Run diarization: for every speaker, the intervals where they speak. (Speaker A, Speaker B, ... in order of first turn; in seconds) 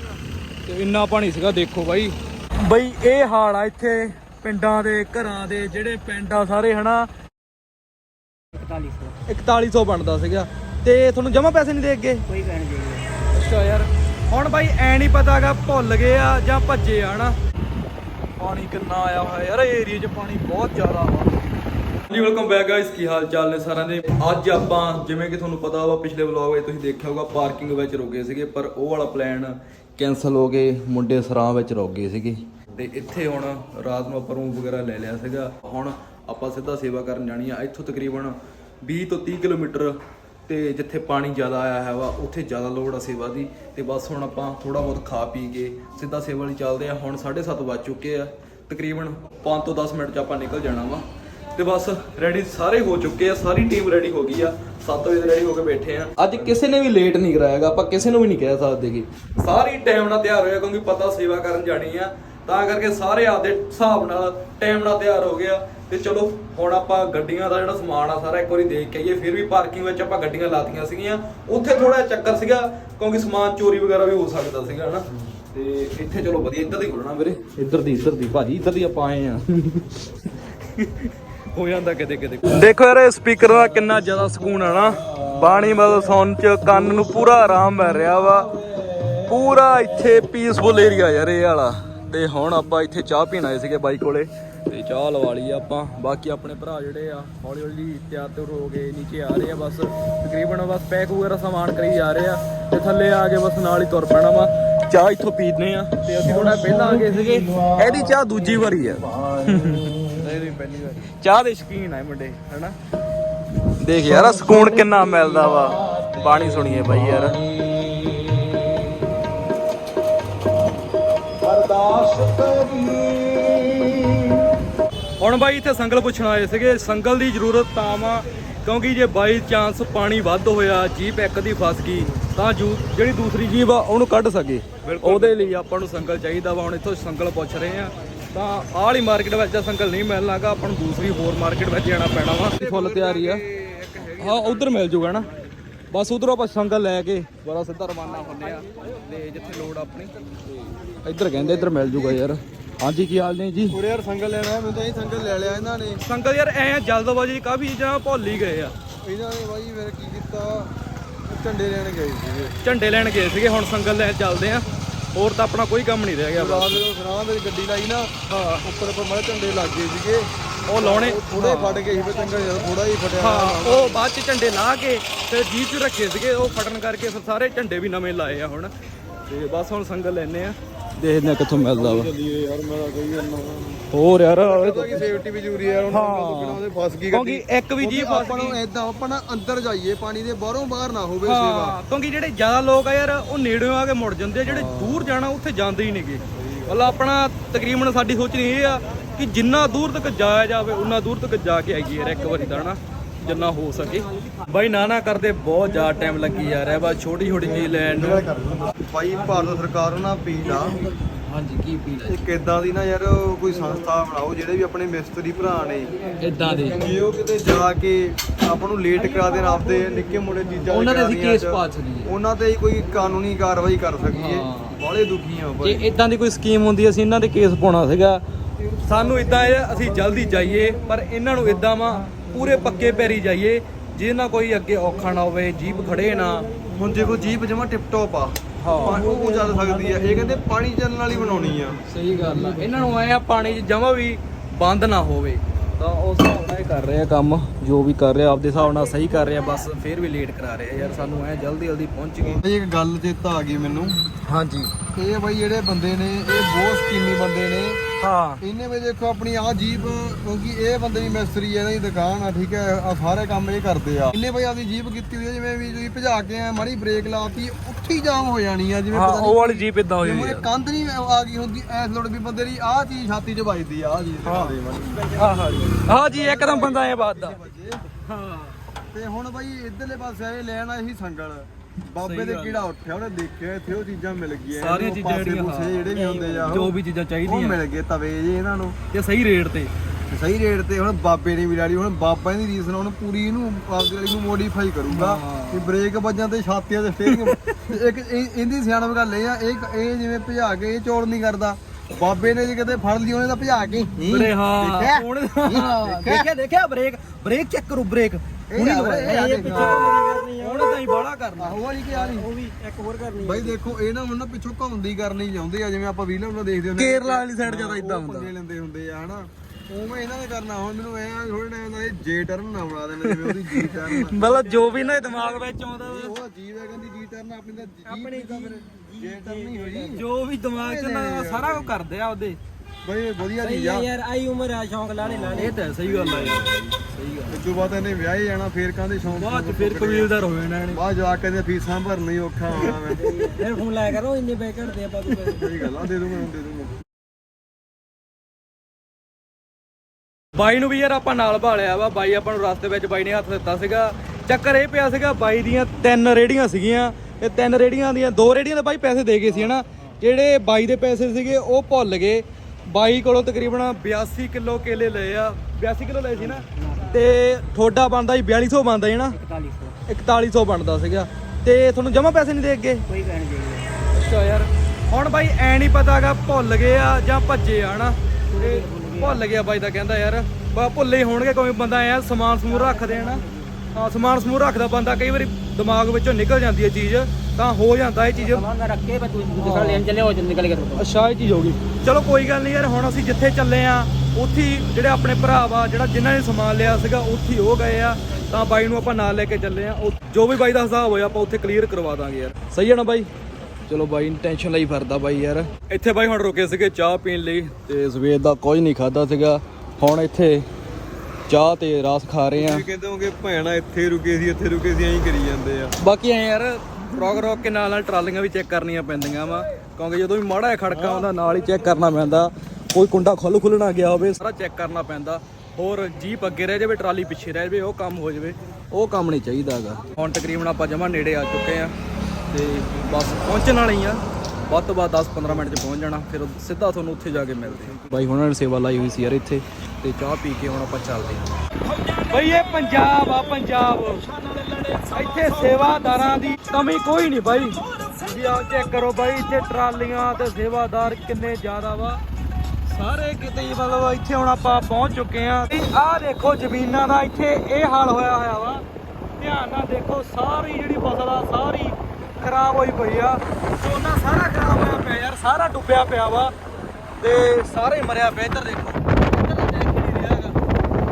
Speaker A: 0.7-7.1, 9.3-12.2, 13.3-17.4, 18.4-21.5, 22.1-80.1, 80.7-88.5, 89.2-112.8, 113.8-117.4, 121.5-123.3, 125.2-143.4, 144.2-145.3, 145.9-150.2, 150.7-153.8, 156.1-158.8, 162.6-166.8, 168.3-168.7, 170.7-171.9, 173.2-178.7, 179.2-182.1, 183.9-185.0, 185.9-186.6, 187.1-188.6, 191.2-208.3, 210.9-212.2, 216.2-216.9, 220.7-222.1, 224.1-224.8, 225.6-228.2, 228.7-236.5, 238.6-239.2, 241.8-252.4, 254.2-254.7, 258.0-258.4, 268.9-270.5, 274.3-274.5, 275.2-277.4, 278.0-278.6, 282.0-282.6, 284.6-285.8, 286.5-287.6, 288.9-289.7, 294.9-295.7, 297.1-297.7, 304.1-311.6, 316.8-318.3, 323.1-326.1, 329.9-332.4, 335.3-337.4, 339.1-340.8, 350.4-369.2, 369.9-372.9, 373.9-388.5, 389.4-389.9, 390.8-403.1, 403.7-410.5, 411.3-412.6, 415.8-431.8, 432.3-452.0, 452.7-458.6, 459.2-466.3, 467.0-470.4
Speaker B: 8.5-9.2, 12.3-13.1, 285.9-286.6, 308.6-310.8, 311.9-313.6, 327.9-329.9, 333.4-335.6, 342.9-345.6, 366.2-367.0, 369.1-369.8, 372.9-373.8, 378.3-379.2, 382.5-383.7, 388.2-390.9
Speaker C: 134.9-135.4, 142.6-144.8, 151.3-152.3, 153.7-156.0, 159.0-160.7, 161.2-162.6, 166.4-168.1, 168.6-174.0, 181.7-183.8, 184.4-191.8, 194.4-195.2, 196.3-196.8, 207.4-210.8, 212.1-216.0, 216.7-225.9, 236.7-241.8, 252.2-254.0, 254.9-257.8, 258.4-277.9, 278.9-288.8, 290.1-306.3, 308.5-310.1, 311.4-312.3, 313.2-330.0, 330.6-331.7, 332.8-333.9, 335.0-336.8, 337.3-340.1, 340.7-343.3, 345.2-346.7, 412.4-415.7, 420.7-421.1